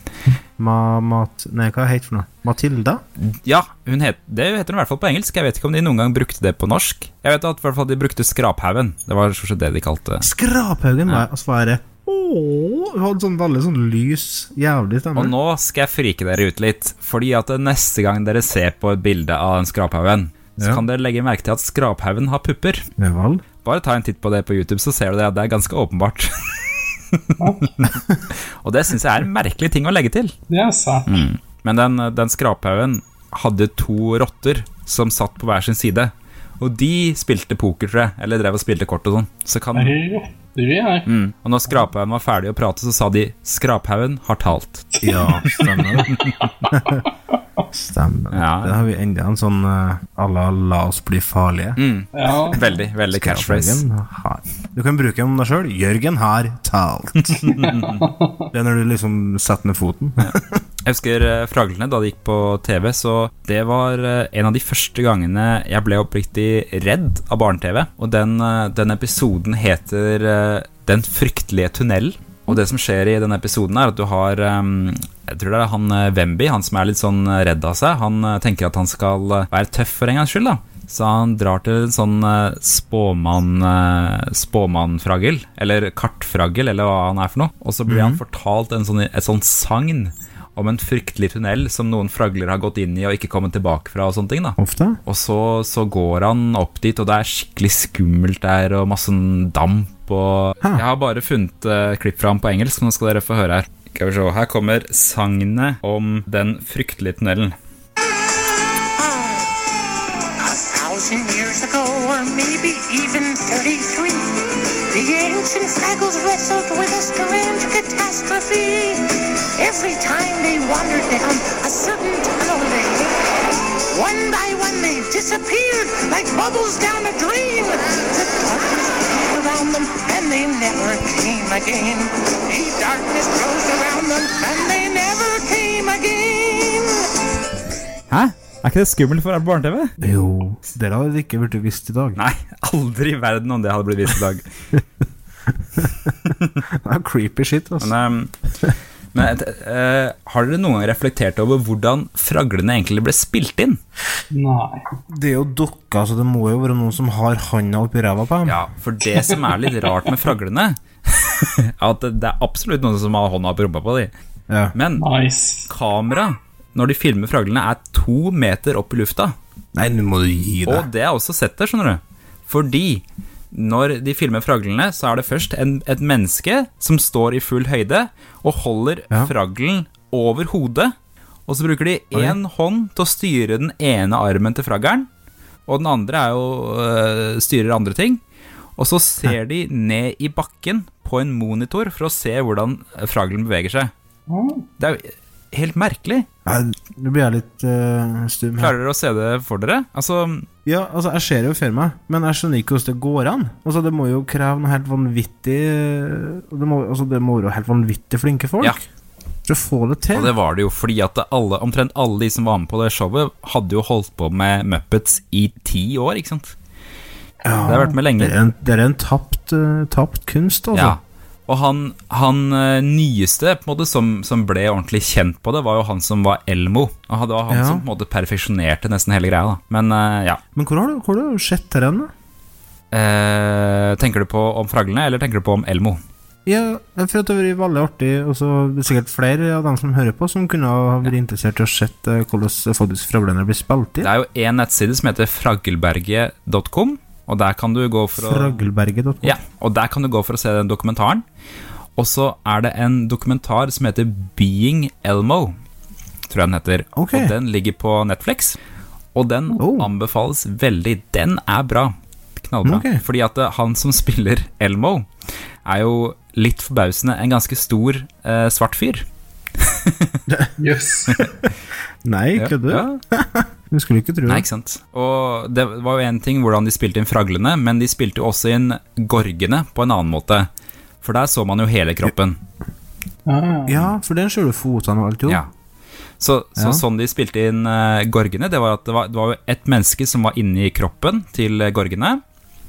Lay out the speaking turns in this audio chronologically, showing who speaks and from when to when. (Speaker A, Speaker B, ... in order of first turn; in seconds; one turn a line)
Speaker A: 0.6-3.0
Speaker B: 3.2-10.3
Speaker A: 10.2-15.3
Speaker B: 15.1-22.8
Speaker A: 20.6-20.8
Speaker A: 23.0-23.4
Speaker B: 23.6-28.0
Speaker C: 27.4-27.9
Speaker B: 28.6-30.3
Speaker C: 30.5-31.2
Speaker B: 31.1-40.0
Speaker C: 39.7-41.1
Speaker B: 41.0-44.9
Speaker C: 44.9-46.0
Speaker A: 45.0-46.1
Speaker B: 46.1-46.5
Speaker A: 46.7-47.0
Speaker A: 47.7-51.8
Speaker B: 48.3-48.8
Speaker B: 51.8-53.8
Speaker C: 52.1-52.7
Speaker A: 53.1-57.8
Speaker B: 57.3-58.0
Speaker C: 57.5-58.5
Speaker A: 58.5-60.6
Speaker B: 60.8-107.5
Speaker A: 87.9-88.2
Speaker A: 94.6-95.0
Speaker D: 109.0-109.6
Speaker D: 110.4-123.3
Speaker D: 123.8-137.2
Speaker B: 138.1-139.9
Speaker A: 140.0-142.2
Speaker B: 142.2-144.4
Speaker A: 145.7-147.9
Speaker B: 146.1-146.6
Speaker B: 147.8-148.3
Speaker B: 149.1-153.8
Speaker C: 154.3-154.8
Speaker A: 155.1-158.6
Speaker B: 158.4-164.1
Speaker A: 164.5-164.8
Speaker B: 164.7-165.0
Speaker C: 165.0-165.7
Speaker B: 165.7-169.3
Speaker A: 169.8-170.9
Speaker B: 170.7-180.9
Speaker B: 181.5-185.1
Speaker A: 182.1-182.4
Speaker B: 185.7-188.2
Speaker B: 188.8-193.9
Speaker C: 194.3-194.7
Speaker B: 194.8-196.3
Speaker A: 196.4-198.8
Speaker B: 198.6-200.5
Speaker A: 200.6-208.8
Speaker A: 209.4-210.3
Speaker B: 210.1-216.5
Speaker A: 217.4-221.0
Speaker B: 217.6-218.4
Speaker B: 220.7-230.4
Speaker A: 227.5-227.9
Speaker A: 230.5-232.1
Speaker B: 232.9-236.0
Speaker A: 236.4-244.1
Speaker B: 244.0-248.6
Speaker A: 248.1-249.4
Speaker B: 249.2-251.2
Speaker B: 251.9-255.5
Speaker B: 256.3-258.6
Speaker A: 256.9-257.3
Speaker B: 259.1-265.1
Speaker A: 259.6-259.9
Speaker A: 262.6-263.0
Speaker B: 265.6-269.0
Speaker B: 269.6-270.1
Speaker A: 270.3-270.5
Speaker C: 270.6-271.2
Speaker A: 271.2-271.5
Speaker A: 272.0-274.4
Speaker B: 272.4-273.0
Speaker B: 274.3-280.5
Speaker B: 281.0-282.4
Speaker C: 283.2-283.8
Speaker A: 283.6-285.4
Speaker B: 286.2-292.2
Speaker A: 286.6-286.8